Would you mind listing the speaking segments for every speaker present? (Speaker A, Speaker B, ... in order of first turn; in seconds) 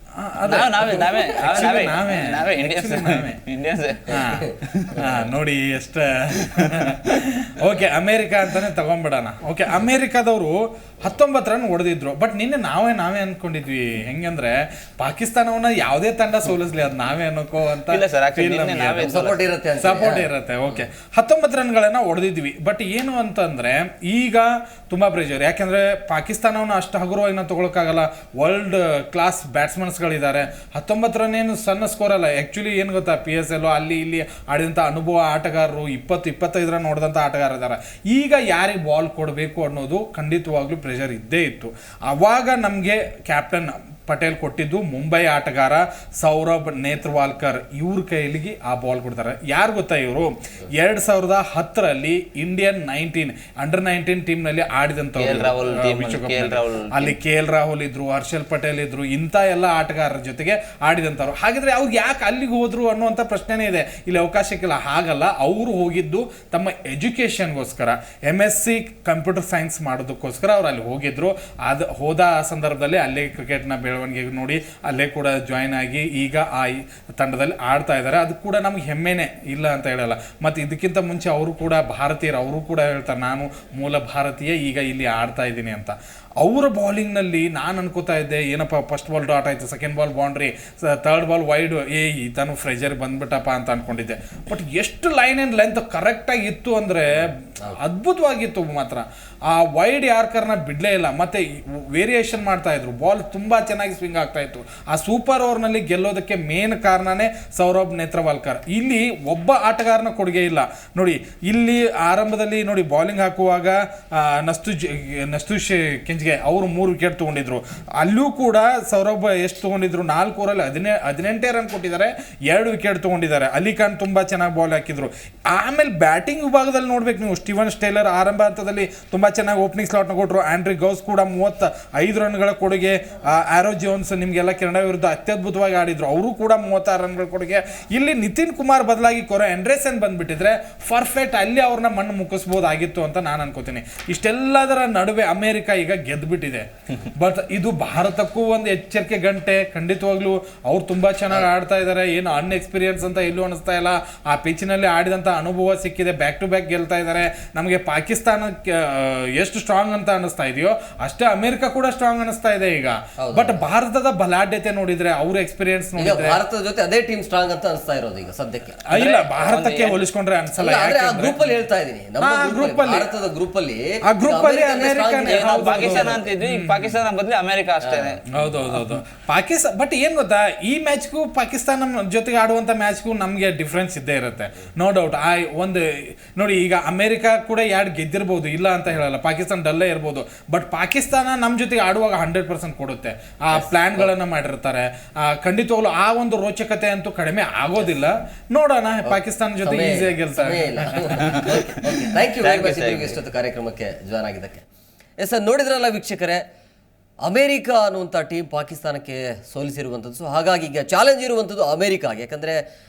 Speaker A: 0.2-3.4, 4.1-4.5, 5.0-166.4, 168.9-171.5, 172.2-173.1, 174.1-176.9, 178.3-185.8, 186.4-201.5
Speaker B: 0.5-5.1, 17.9-19.4, 55.2-57.1, 168.9-170.0, 175.2-178.2, 201.5-203.2
Speaker C: 19.1-20.3, 163.2-163.7, 166.0-168.8, 170.6-176.3, 177.8-178.5, 193.5-194.1, 199.1-204.7, 205.2-206.4, 207.2-212.6